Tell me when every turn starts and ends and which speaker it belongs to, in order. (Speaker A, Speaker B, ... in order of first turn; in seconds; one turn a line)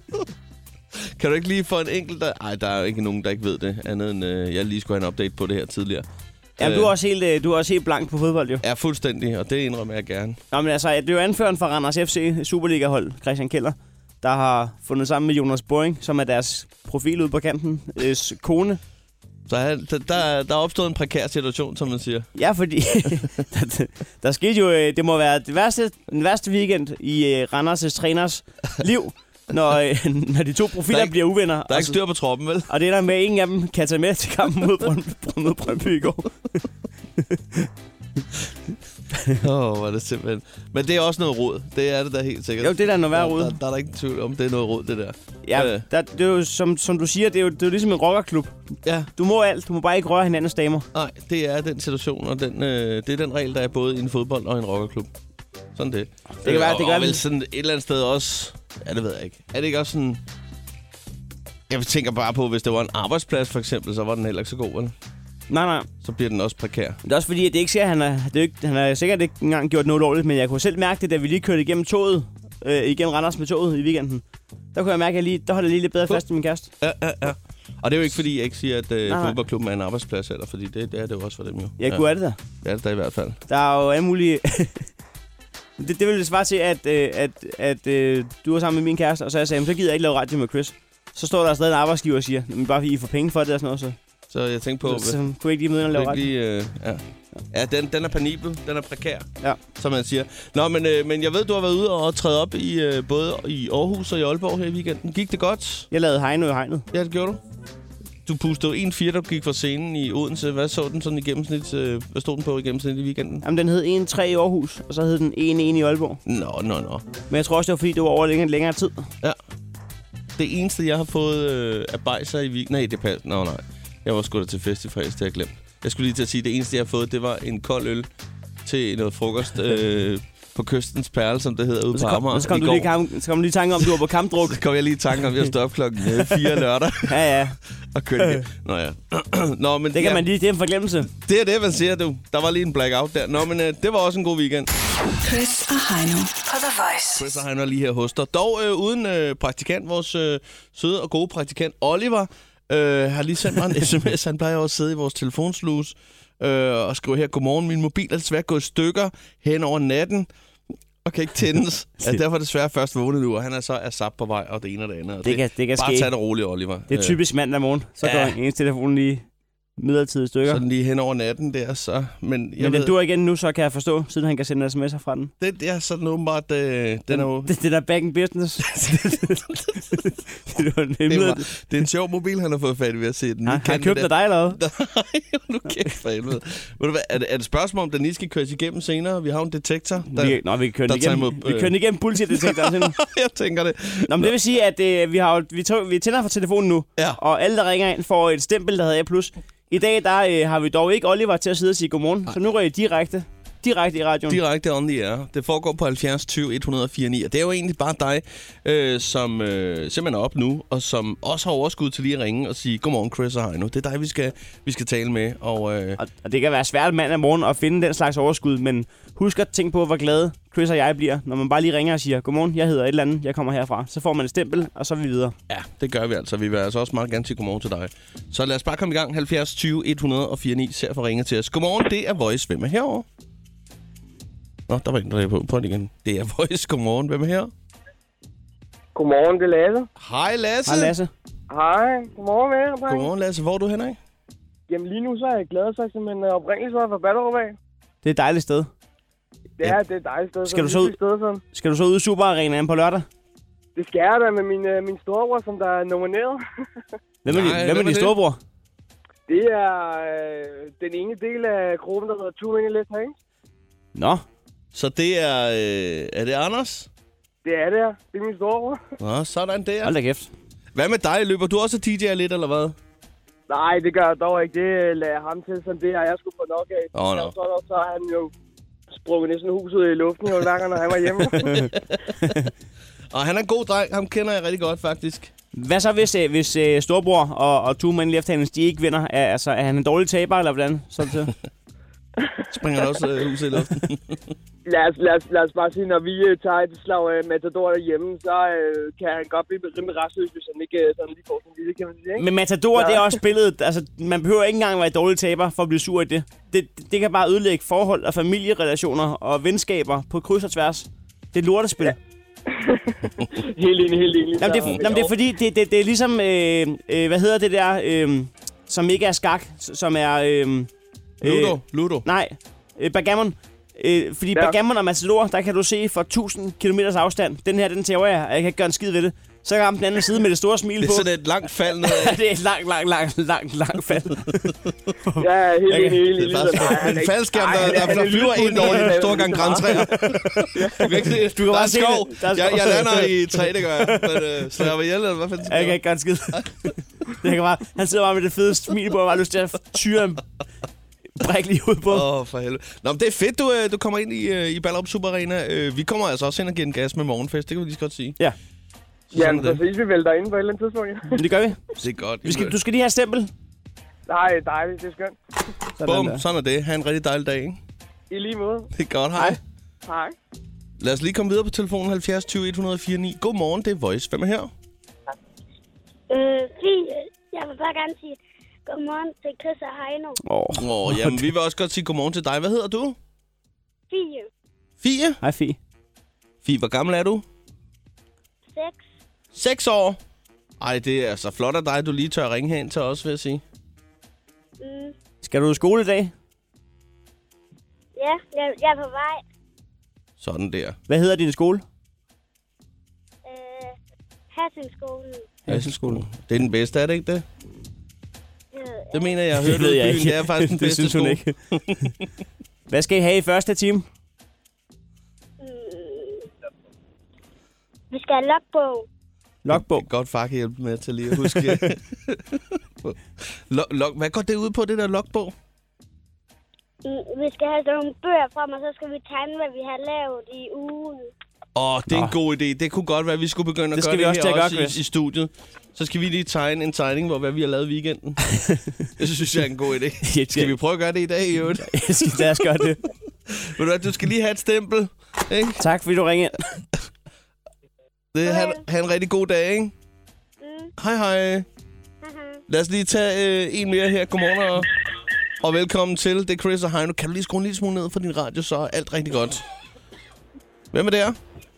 Speaker A: 1.2-6.1
Speaker A: 6.6-6.9
Speaker B: 6.6-8.6
Speaker A: 8.6-10.4
Speaker B: 10.5-18.8
Speaker A: 19.5-22.3
Speaker B: 22.4-32.0
Speaker A: 30.9-32.7
Speaker B: 32.7-36.4
Speaker B: 37.2-37.7
Speaker A: 39.3-45.9
Speaker B: 42.6-43.6
Speaker B: 45.4-48.6
Speaker A: 48.9-49.1
Speaker B: 49.1-50.9
Speaker A: 50.9-55.1
Speaker A: 55.7-60.2
Speaker B: 56.4-57.2
Speaker A: 61.7-64.9
Speaker B: 65.5-65.9
Speaker A: 66.0-67.0
Speaker B: 67.0-74.2
Speaker B: 74.7-76.7
Speaker A: 76.8-82.0
Speaker B: 79.1-79.4
Speaker B: 81.8-82.4
Speaker A: 82.6-83.4
Speaker B: 83.5-84.9
Speaker B: 85.8-94.0
Speaker A: 94.3-95.2
Speaker B: 94.8-96.3
Speaker A: 95.9-105.9
Speaker B: 105.9-106.9
Speaker A: 106.9-107.4
Speaker A: 108.3-113.4
Speaker B: 113.4-116.2
Speaker A: 116.3-117.1
Speaker B: 117.3-119.1
Speaker A: 120.4-128.1
Speaker A: 128.7-132.9
Speaker B: 131.9-134.6
Speaker A: 134.4-137.2
Speaker B: 137.1-137.6
Speaker A: 137.9-140.2
Speaker B: 139.9-141.1
Speaker A: 141.2-144.7
Speaker C: 145.2-147.3
Speaker A: 147.2-160.3
Speaker A: 161.0-167.2
Speaker B: 165.2-166.1
Speaker B: 166.9-169.2
Speaker A: 168.0-168.4
Speaker B: 169.8-170.6
Speaker A: 170.5-172.9
Speaker B: 172.6-175.3
Speaker A: 175.4-177.5
Speaker B: 177.1-181.5
Speaker A: 178.7-179.8
Speaker A: 181.1-191.8
Speaker B: 183.5-184.6
Speaker B: 190.1-192.9
Speaker A: 192.3-194.3
Speaker B: 194.1-204.4
Speaker A: 204.3-216.0
Speaker B: 216.0-225.4
Speaker A: 225.5-233.1
Speaker A: 234.7-237.5
Speaker D: 238.9-239.9
Speaker A: 240.0-240.9
Speaker B: 240.7-241.1
Speaker D: 241.5-243.1
Speaker A: 242.9-244.0
Speaker D: 244.7-247.6
Speaker B: 248.0-248.7
Speaker D: 249.6-251.4
Speaker B: 250.5-250.9
Speaker B: 251.5-253.1
Speaker D: 253.8-256.4
Speaker B: 257.2-258.4
Speaker A: 257.3-258.1
Speaker D: 259.3-263.1
Speaker B: 263.9-264.2
Speaker A: 264.7-266.9
Speaker D: 267.4-268.8
Speaker A: 269.0-269.9
Speaker B: 269.8-270.3
Speaker A: 270.8-272.8
Speaker D: 273.5-278.3
Speaker A: 276.9-277.3
Speaker D: 278.9-281.5
Speaker A: 281.5-282.3
Speaker A: 283.1-285.3
Speaker B: 285.5-291.3
Speaker A: 292.5-294.2
Speaker D: 294.7-303.1
Speaker B: 302.2-312.0
Speaker D: 313.3-315.1
Speaker B: 314.4-320.7
Speaker A: 321.2-322.1
Speaker B: 321.2-331.1
Speaker A: 330.8-332.2
Speaker B: 331.8-335.2
Speaker D: 335.2-341.0
Speaker A: 336.1-345.8
Speaker B: 339.6-344.4
Speaker B: 345.4-350.2
Speaker B: 351.2-352.1
Speaker A: 351.9-358.2
Speaker A: 359.1-359.6
Speaker D: 359.1-361.1
Speaker B: 361.1-361.7
Speaker A: 361.8-362.6
Speaker B: 362.2-363.3
Speaker D: 364.1-365.2
Speaker B: 365.8-366.2
Speaker A: 365.8-367.6
Speaker D: 368.1-368.7
Speaker A: 368.7-369.4
Speaker D: 369.9-370.1
Speaker A: 370.8-374.5
Speaker E: 376.1-380.2
Speaker B: 380.2-381.3
Speaker A: 380.6-383.0
Speaker E: 383.9-384.3
Speaker A: 384.8-385.2
Speaker B: 385.2-385.6
Speaker A: 386.4-387.2
Speaker E: 388.5-388.8
Speaker A: 389.3-390.0
Speaker A: 390.6-393.4
Speaker E: 394.6-394.9
Speaker B: 395.2-396.1
Speaker E: 398.0-399.2
Speaker A: 400.2-400.8
Speaker B: 400.9-401.6
Speaker E: 403.2-403.8
Speaker E: 404.3-405.3
Speaker B: 405.5-406.1
Speaker A: 405.5-407.2
Speaker E: 408.5-409.2
Speaker A: 408.9-411.9
Speaker B: 409.4-411.4
Speaker B: 412.7-413.9
Speaker E: 415.4-416.3
Speaker E: 417.9-418.9
Speaker B: 419.4-419.9
Speaker A: 419.5-425.3
Speaker B: 421.2-421.6
Speaker E: 426.9-431.1
Speaker A: 431.6-438.2
Speaker B: 433.8-434.8
Speaker B: 438.3-438.6
Speaker A: 439.0-442.6
Speaker B: 440.0-440.5
Speaker B: 441.6-442.8
Speaker A: 443.3-445.6
Speaker B: 445.6-446.4
Speaker A: 448.1-449.7
Speaker E: 448.3-448.6
Speaker E: 450.4-450.7
Speaker A: 450.8-451.5
Speaker E: 452.0-452.4
Speaker A: 452.5-454.7
Speaker A: 455.4-459.4
Speaker A: 460.7-461.2